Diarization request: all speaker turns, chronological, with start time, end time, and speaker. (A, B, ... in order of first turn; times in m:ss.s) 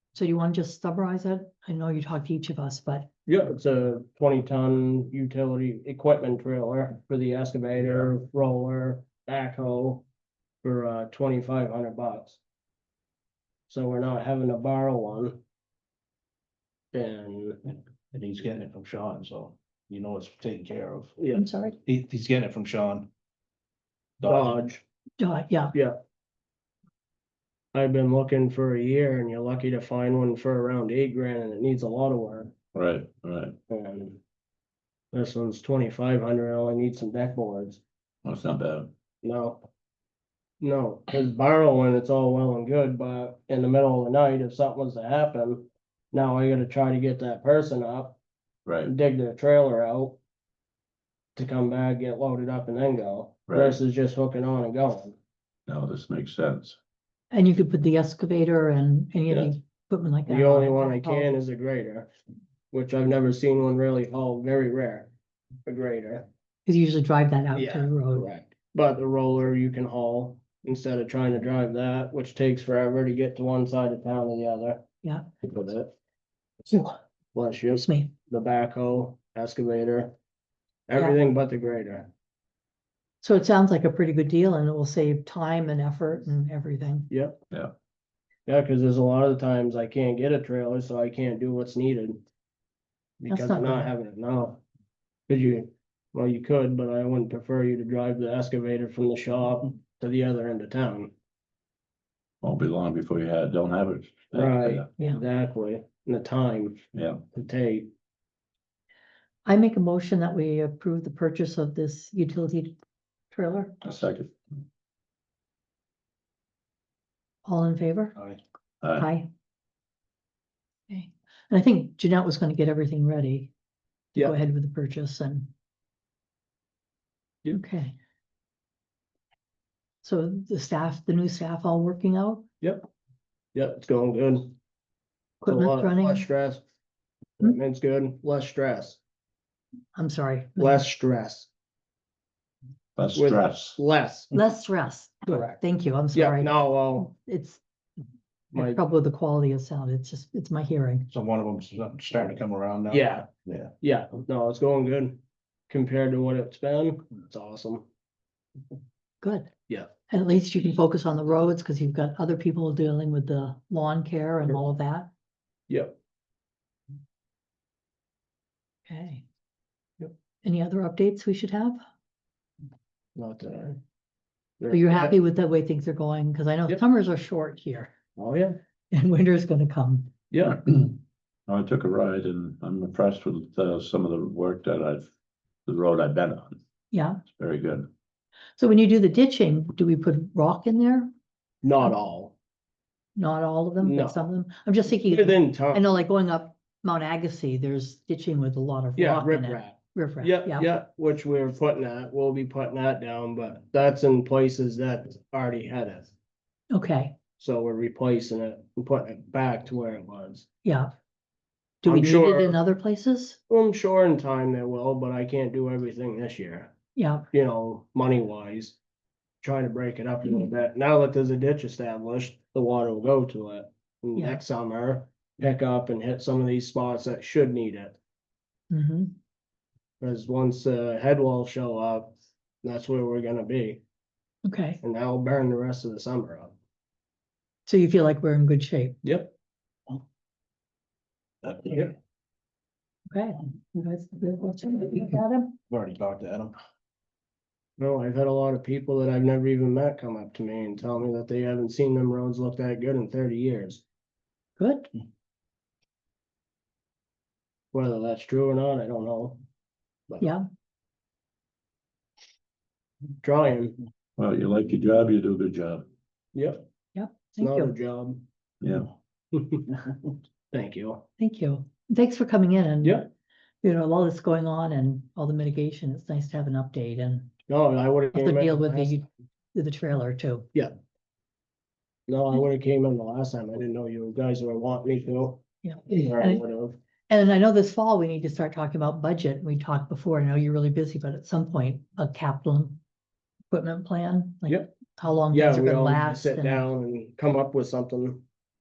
0:00.1-0:03.1 A
0:03.2-0:10.0 B
0:10.6-0:12.4 B
0:13.7-0:15.4 B
0:16.9-0:17.6 B
0:18.1-0:21.1 C
0:21.2-0:21.4 B
0:21.3-0:21.8 A
0:21.8-0:23.1 C
0:24.2-0:24.6 C
0:24.2-0:24.8 B
0:25.2-0:25.7 A
0:27.7-0:32.5 B
0:32.7-0:33.6 D
0:33.7-0:34.2 B
0:35.1-0:37.8 B
0:38.2-0:38.9 D
0:39.2-0:39.6 B
0:40.6-0:48.2 B
0:48.6-0:48.9 D
0:48.8-0:50.2 B
0:51.4-0:55.2 B
0:53.5-0:53.8 D
0:55.7-0:56.8 D
0:57.3-1:01.3 A
0:59.3-0:59.5 B
1:00.3-1:02.1 B
1:02.7-1:05.1 B
1:05.6-1:06.3 B
1:06.6-1:08.3 A
1:07.6-1:14.8 B
1:15.4-1:15.9 B
1:17.3-1:20.1 B
1:17.8-1:18.1 A
1:20.9-1:22.1 B
1:23.2-1:27.1 A
1:27.1-1:27.4 B
1:28.5-1:32.2 B
1:33.2-1:34.6 B
1:33.3-1:33.9 A
1:35.3-1:41.1 B
1:42.4-1:44.9 D
1:44.3-1:46.8 B
1:46.9-1:47.2 D
1:47.3-1:47.9 B
1:49.4-1:52.7 A
1:53.3-1:53.8 A
1:53.8-1:54.3 D
1:57.4-1:58.2 A
1:58.8-1:59.1 D
1:59.0-1:59.3 A
2:00.9-2:03.5 A
2:04.2-2:05.5 A
2:07.5-2:07.9 A
2:10.0-2:12.4 A
2:12.6-2:12.9 B
2:13.5-2:14.5 B
2:15.4-2:16.3 A
2:15.5-2:16.6 B
2:17.4-2:19.0 B
2:19.9-2:20.8 A
2:20.6-2:21.5 B
2:23.0-2:23.8 D
2:23.1-2:24.3 B
2:24.3-2:27.6 A
2:25.3-2:25.6 B
2:26.1-2:27.1 B
2:28.5-2:28.8 B
2:28.5-2:31.1 A
2:31.1-2:33.7 C
2:32.9-2:33.3 B
2:33.8-2:37.8 B
2:39.2-2:39.5 A
2:40.1-2:45.1 A
2:45.7-2:45.9 B
2:48.9-2:49.2 A
2:50.4-2:51.8 A
2:53.2-2:53.8 B
2:54.6-2:55.1 B
2:54.7-2:57.9 A
2:58.2-2:58.6 B
2:58.9-3:00.1 A
3:00.3-3:00.6 B
3:00.7-3:00.9 D
3:01.5-3:05.1 D
3:05.6-3:06.6 D
3:06.9-3:07.2 A
3:07.3-3:07.9 D
3:08.6-3:11.1 A
3:11.6-3:12.3 B
3:13.2-3:20.7 A
3:13.8-3:14.2 B
3:14.9-3:15.8 B
3:19.0-3:26.1 B
3:26.7-3:27.2 A
3:27.4-3:30.5 B
3:30.6-3:30.9 A
3:31.8-3:33.4 A
3:31.8-3:32.6 B
3:33.5-3:36.7 B
3:37.0-3:37.3 A
3:37.3-3:38.8 B
3:39.4-3:48.0 B
3:48.7-3:49.1 A
3:50.0-3:53.8 B
3:54.4-3:54.8 A
3:54.8-3:56.5 B
3:57.7-3:59.0 A
3:59.0-3:59.3 B
4:01.4-4:01.7 C
4:03.1-4:05.5 A
4:05.7-4:06.5 C
4:07.8-4:13.8 B
4:14.6-4:14.9 A
4:17.7-4:19.4 B
4:23.2-4:23.7 B
4:24.2-4:25.8 D
4:26.3-4:26.6 B
4:26.9-4:27.7 A
4:27.4-4:28.2 B
4:28.6-4:28.9 D
4:29.3-4:29.8 B
4:30.5-4:31.0 B
4:31.2-4:33.0 A
4:33.6-4:37.3 A
4:37.5-4:39.0 B
4:38.1-4:40.5 A
4:42.1-4:46.8 B
4:45.6-4:46.4 A
4:47.1-4:52.8 A
4:53.5-4:56.6 A
4:54.5-4:54.7 B
4:55.3-4:58.2 B